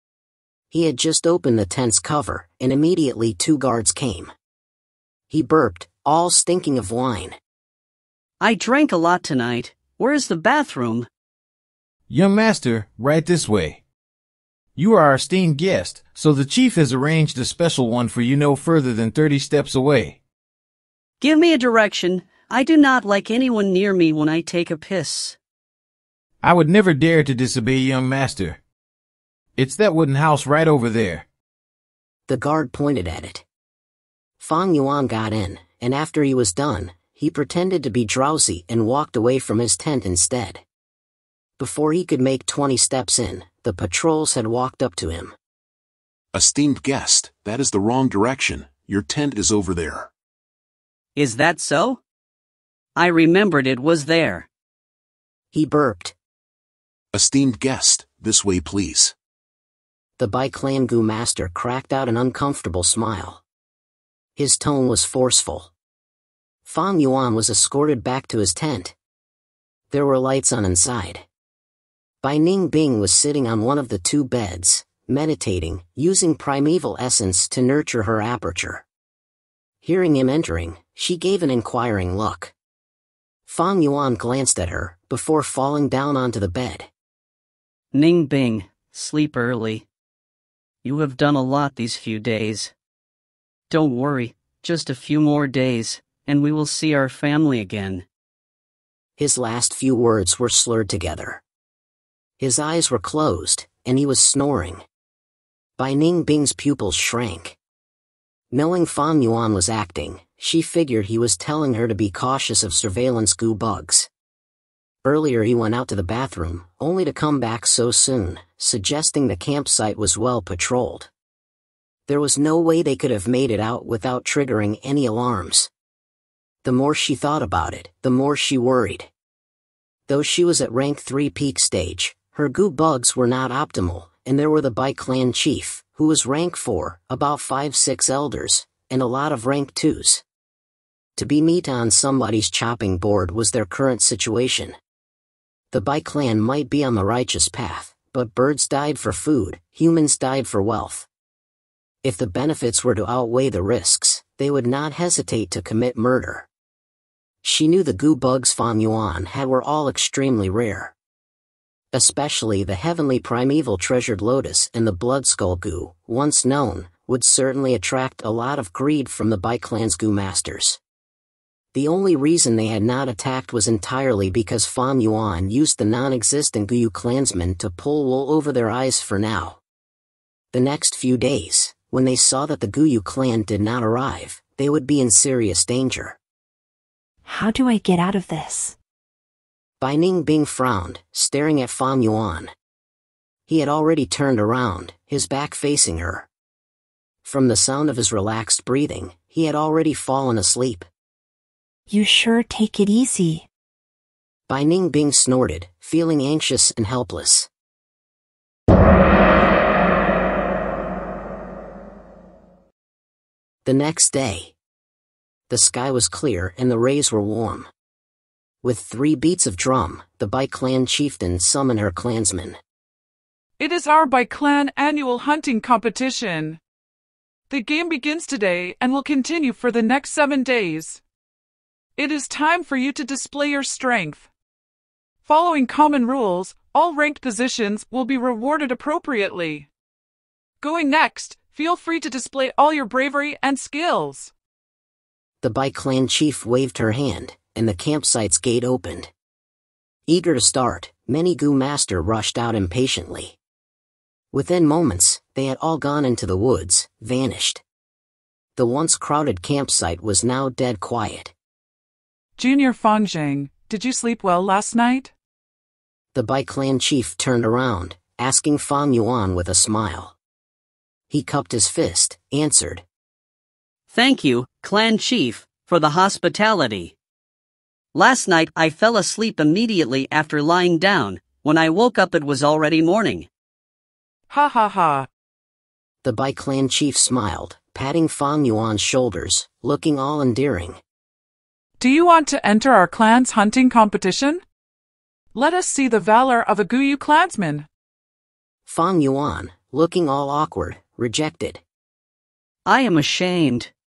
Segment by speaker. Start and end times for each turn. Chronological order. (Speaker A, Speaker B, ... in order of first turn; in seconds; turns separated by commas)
Speaker A: 0.7-4.3, Speaker A: 5.3-7.4, Speaker B: 8.4-11.1, Speaker C: 12.1-13.8, Speaker C: 14.8-20.2, Speaker B: 21.2-25.4, Speaker C: 26.4-28.6, Speaker C: 29.6-31.2, Speaker A: 32.3-33.4, Speaker A: 34.4-40.6, Speaker A: 41.6-45.4, Speaker D: 46.3-50.1, Speaker B: 51.2-52.0, Speaker B: 53.0-54.5, Speaker A: 55.5-56.1, Speaker D: 57.1-59.1, Speaker A: 60.2-63.4, Speaker A: 64.4-65.7, Speaker A: 66.7-68.9, Speaker A: 69.9-71.2, Speaker A: 72.2-78.8, Speaker A: 79.8-82.5, Speaker A: 83.5-86.9, Speaker B: 87.9-89.8, Speaker B: 90.8-92.7, Speaker B: 93.7-98.0, Speaker A: 99.2-101.4, Speaker A: 102.4-104.8, Speaker A: 105.8-107.6, Speaker A: 108.5-114.1, Speaker A: 115.0-121.1, Speaker A: 122.1-125.7, Speaker A: 126.6-129.1, Speaker A: 130.1-140.2, Speaker A: 141.2-144.8, Speaker A: 145.7-151.1, Speaker A: 152.0-156.5, Speaker A: 157.4-160.9, Speaker A: 161.9-170.8, Speaker A: 171.7-179.6, Speaker A: 180.5-186.2, Speaker E: 187.3-188.8, Speaker A: 189.8-192.5, Speaker A: 193.5-196.3, Speaker A: 197.2-200.9, Speaker E: 201.9-203.4, Speaker A: 204.5-207.5, Speaker A: 213.7-214.5, Speaker A: 215.5-217.7, Speaker A: 218.6-222.6, Speaker F: 223.6-226.6, Speaker F: 227.5-231.0, Speaker F: 232.0-234.3, Speaker F: 235.2-239.7, Speaker F: 240.6-244.3, Speaker A: 245.4-249.1, Speaker A: 250.1-253.3, Speaker A: 254.3-257.6, Speaker A: 258.6-261.3, Speaker F: 262.4-265.1, Speaker A: 266.1-270.1, Speaker A: 271.1-272.8, Speaker B: 273.9-276.9, Speaker B: 277.9-283.3, Speaker F: 284.3-285.1, Speaker A: 286.0-290.8, Speaker F: 291.8-294.4, Speaker F: 295.3-297.7, Speaker A: 298.7-301.6, Speaker B: 302.7-303.7